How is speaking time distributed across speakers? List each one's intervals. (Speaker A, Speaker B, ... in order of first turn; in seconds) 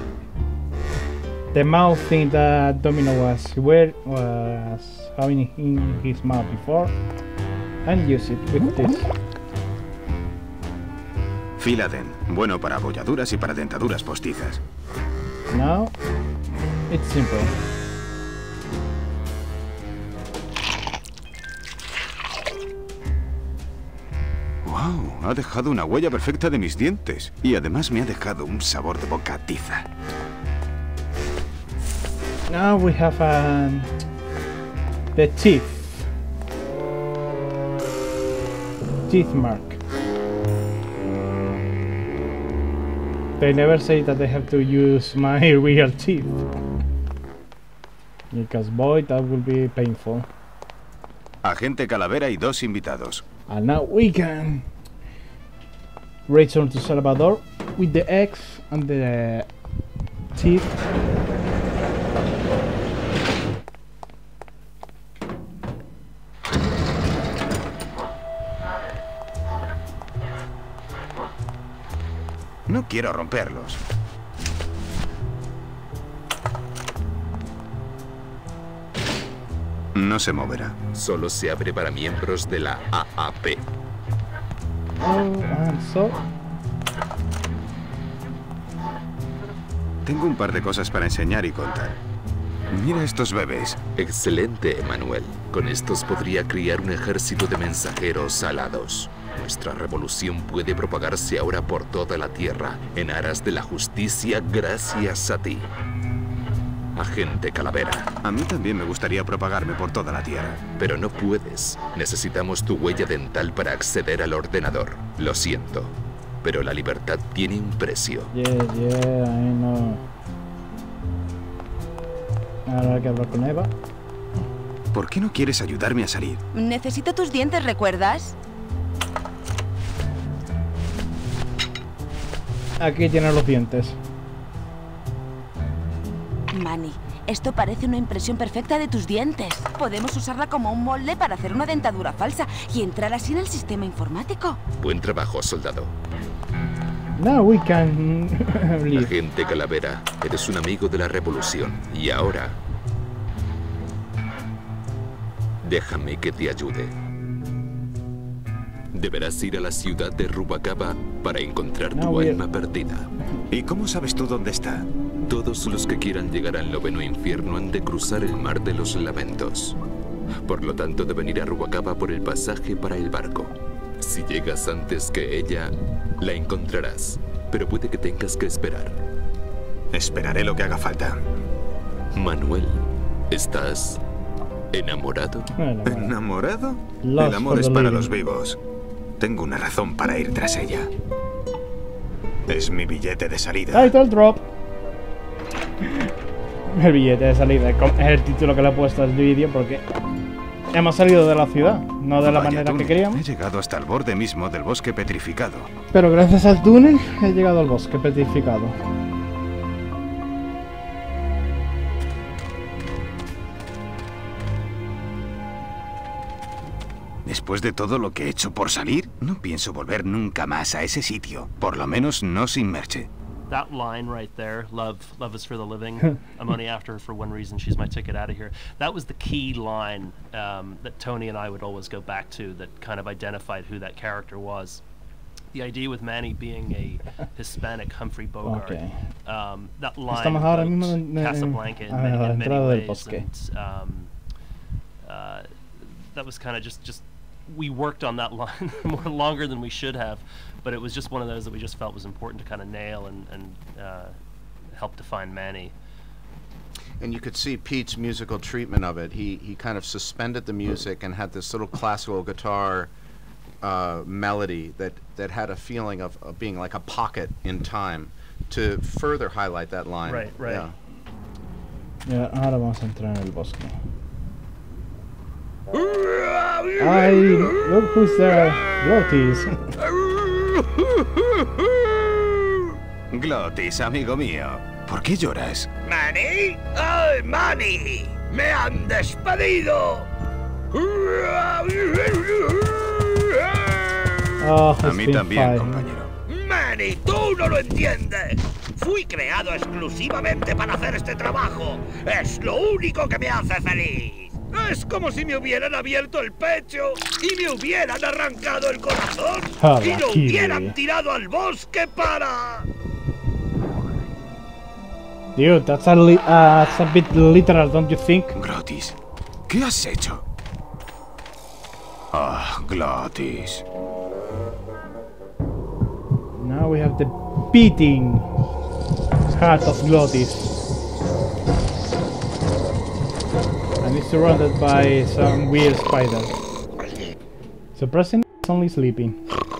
Speaker A: 1.5-7.0, 7.8-9.1, 15.5-15.9, 16.9-17.6, 32.5-33.9, 35.1-36.1, 39.1-39.8, 43.4-46.4, 48.3-50.3, 53.5-54.7, 56.3-59.5, 60.3-60.8, 85.0-86.2, 118.3-120.0, 122.7-123.7, 132.8-134.0, 147.2-149.1, 161.9-162.4, 185.6-186.1, 187.0-188.1, 193.7-194.4, 195.8-196.1, 196.7-199.8, 200.7-203.2, 205.9-208.8, 238.4-239.0, 240.1-243.3, 272.1-273.8, 276.8-279.5, 294.4-295.9, 309.6-310.8, 315.4-318.4, 326.4-328.3, 329.3-330.6, 333.8-336.3, 337.8-339.2
Speaker B: 11.6-14.6, 24.6-29.9, 51.4-53.2, 72.7-73.8, 79.9-80.8, 90.0-92.0, 92.7-93.8, 108.2-110.7, 124.9-126.4, 163.5-164.9, 179.9-181.2, 185.8-188.6, 189.2-190.9, 192.5-193.9, 202.2-205.7, 217.3-223.1, 283.1-285.7, 294.8-296.1, 318.4-319.0, 319.5-320.2, 322.1-323.6
Speaker C: 80.9-83.7, 93.9-105.7, 107.0-108.1, 110.7-115.9, 116.4-118.3, 144.8-145.9, 148.9-152.6, 155.6-156.9, 158.9-163.1, 165.3-169.8, 170.4-179.0, 182.1-184.0, 184.7-185.5
Speaker D: 126.5-128.4, 136.5-144.6
Speaker E: 223.5-234.8, 235.5-244.1, 245.1-254.2, 254.7-255.7, 270.1-270.7
Speaker F: 257.0-262.9, 263.6-270.8
Speaker G: 275.7-277.7, 279.8-282.5, 285.8-290.1, 290.7-294.2, 296.3-312.6